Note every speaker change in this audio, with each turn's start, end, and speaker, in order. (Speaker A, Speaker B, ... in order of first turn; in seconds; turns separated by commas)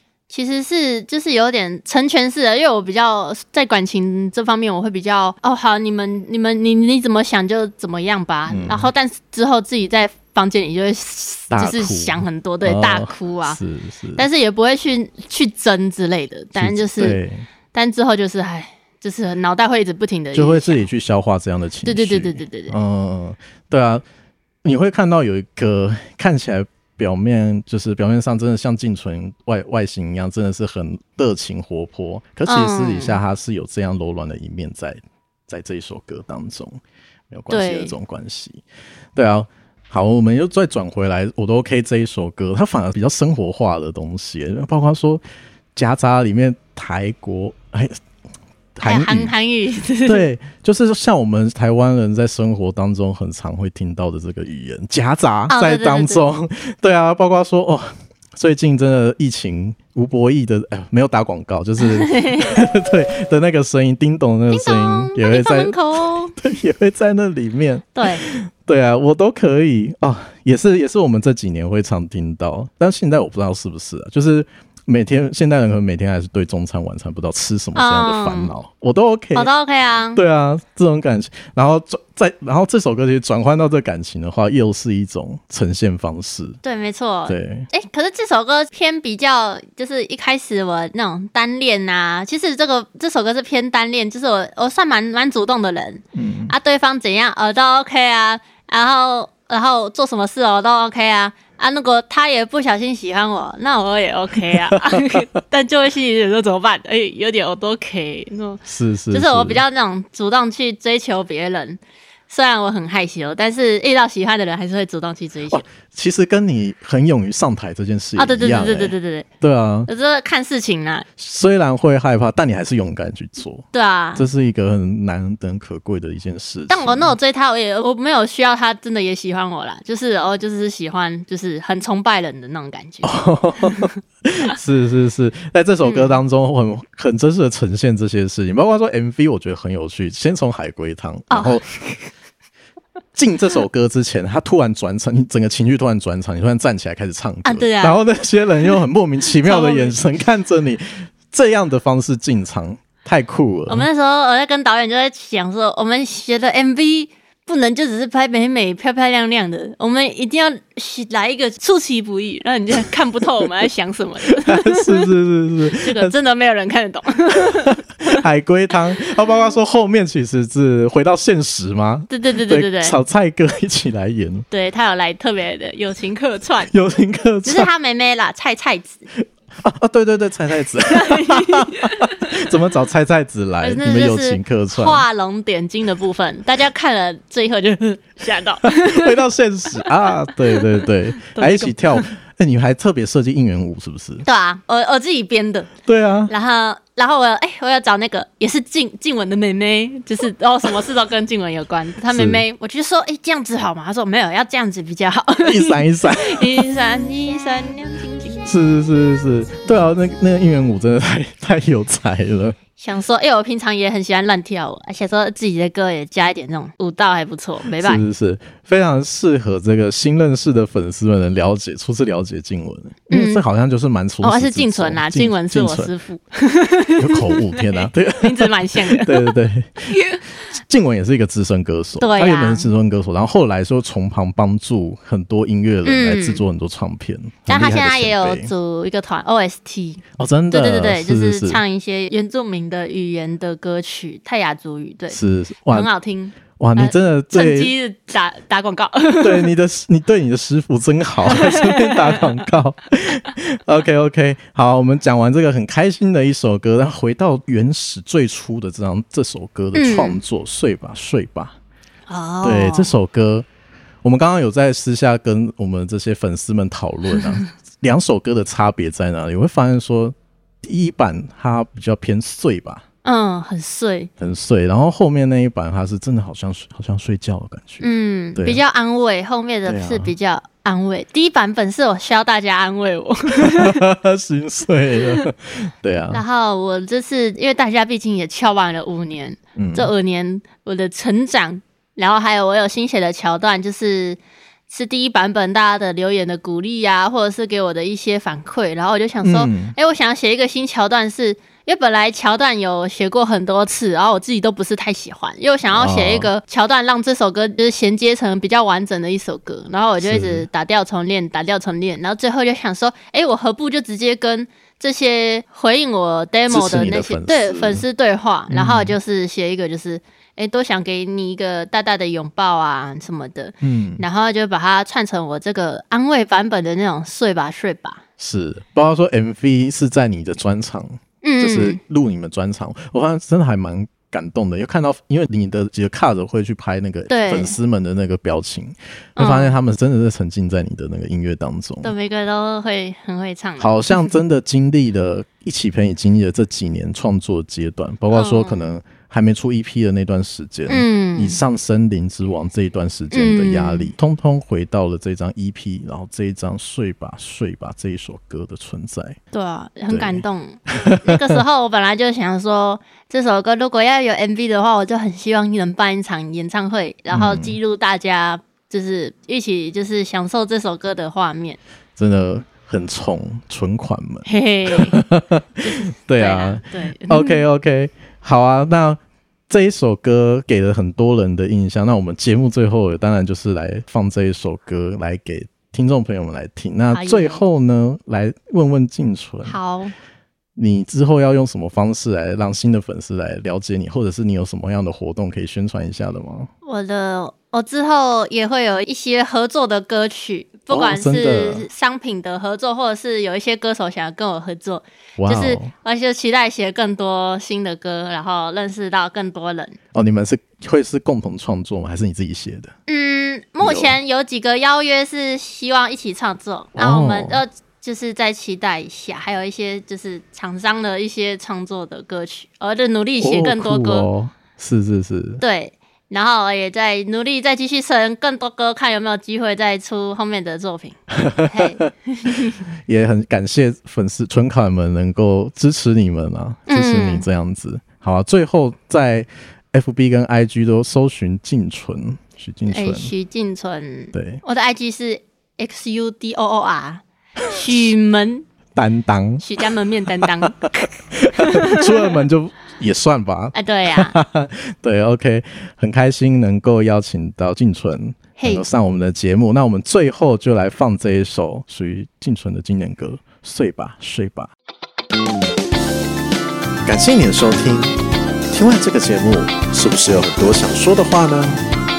Speaker A: 0.3-13.6, Speaker B: 8.5-8.9, Speaker B: 11.5-14.3, Speaker A: 14.2-17.2, Speaker B: 16.5-17.5, Speaker A: 17.7-20.8, Speaker B: 20.3-24.0, Speaker A: 21.8-22.8, Speaker B: 24.6-38.6, Speaker A: 32.5-33.2, Speaker A: 37.5-37.9, Speaker B: 39.1-45.2, Speaker B: 45.7-48.0, Speaker B: 48.8-49.3, Speaker A: 48.8-50.2, Speaker B: 50.0-65.8, Speaker A: 55.5-56.2, Speaker A: 61.8-62.5, Speaker A: 64.5-66.3, Speaker B: 66.3-79.5, Speaker A: 67.9-68.2, Speaker A: 77.7-78.5, Speaker A: 79.3-80.2, Speaker B: 80.1-86.6, Speaker A: 86.6-115.6, Speaker B: 87.3-87.7, Speaker B: 96.1-96.5, Speaker B: 104.5-105.2, Speaker B: 108.6-109.6, Speaker B: 115.5-119.9, Speaker A: 118.2-119.3, Speaker A: 119.8-121.0, Speaker B: 121.2-127.2, Speaker A: 123.7-124.2, Speaker A: 126.7-133.9, Speaker B: 133.0-141.7, Speaker A: 135.8-136.2, Speaker A: 141.3-142.0, Speaker B: 143.1-153.9, Speaker A: 147.4-148.0, Speaker A: 149.4-149.9, Speaker A: 153.7-165.1, Speaker B: 164.4-166.1, Speaker A: 165.7-168.2, Speaker B: 168.1-174.4, Speaker A: 172.1-173.0, Speaker A: 174.5-176.7, Speaker B: 176.7-177.7, Speaker A: 177.4-179.1, Speaker B: 179.6-185.0, Speaker A: 180.9-182.3, Speaker A: 183.6-191.8, Speaker B: 188.6-194.2, Speaker A: 194.2-195.7, Speaker B: 195.8-196.3, Speaker A: 196.3-208.5, Speaker B: 202.1-202.4, Speaker B: 205.4-206.7, Speaker B: 208.4-212.6, Speaker A: 212.8-218.0, Speaker B: 217.7-225.9, Speaker A: 223.1-223.4, Speaker A: 224.2-229.3, Speaker B: 227.0-230.0, Speaker A: 229.9-230.2, Speaker B: 230.5-238.5, Speaker A: 232.0-232.7, Speaker A: 235.8-236.4, Speaker A: 237.5-245.2, Speaker B: 240.2-241.6, Speaker B: 245.1-245.9, Speaker A: 245.7-249.5, Speaker B: 246.6-247.7, Speaker B: 249.2-261.5, Speaker A: 251.2-252.2, Speaker A: 259.7-260.2, Speaker A: 262.1-262.9, Speaker B: 262.4-263.4, Speaker B: 264.0-272.8, Speaker A: 273.0-274.1, Speaker B: 274.2-278.6, Speaker A: 277.8-283.9, Speaker B: 279.6-280.1, Speaker B: 283.4-286.2, Speaker A: 286.1-328.0, Speaker B: 289.6-289.9, Speaker B: 299.2-299.7, Speaker B: 305.7-306.3, Speaker B: 310.0-310.5, Speaker B: 316.5-317.8, Speaker B: 318.5-318.9, Speaker B: 323.6-324.0, Speaker B: 328.2-341.9, Speaker A: 331.2-331.8, Speaker A: 337.1-337.5, Speaker A: 339.2-339.5, Speaker A: 341.8-344.1, Speaker B: 343.6-359.2, Speaker A: 348.1-348.6, Speaker A: 350.7-351.4, Speaker A: 353.1-353.9, Speaker A: 359.3-371.6, Speaker B: 359.9-361.4, Speaker B: 367.1-367.6, Speaker B: 372.0-389.6, Speaker A: 374.2-375.0, Speaker A: 375.6-377.4, Speaker A: 386.9-387.4, Speaker A: 389.4-389.9, Speaker B: 390.6-396.5, Speaker A: 396.6-409.8, Speaker B: 400.7-401.6, Speaker B: 405.2-405.7, Speaker B: 409.9-412.7, Speaker A: 412.9-424.1, Speaker B: 413.6-413.9, Speaker B: 416.7-417.4, Speaker B: 423.2-425.4, Speaker A: 425.4-432.6, Speaker B: 431.2-431.7, Speaker B: 432.9-443.1, Speaker A: 436.7-437.2, Speaker A: 442.7-448.4, Speaker B: 444.1-444.4, Speaker B: 448.7-449.4, Speaker A: 449.4-452.2, Speaker B: 450.2-450.5, Speaker B: 451.1-464.5, Speaker A: 453.5-454.2, Speaker A: 458.4-458.6, Speaker B: 466.8-468.0, Speaker B: 468.5-471.6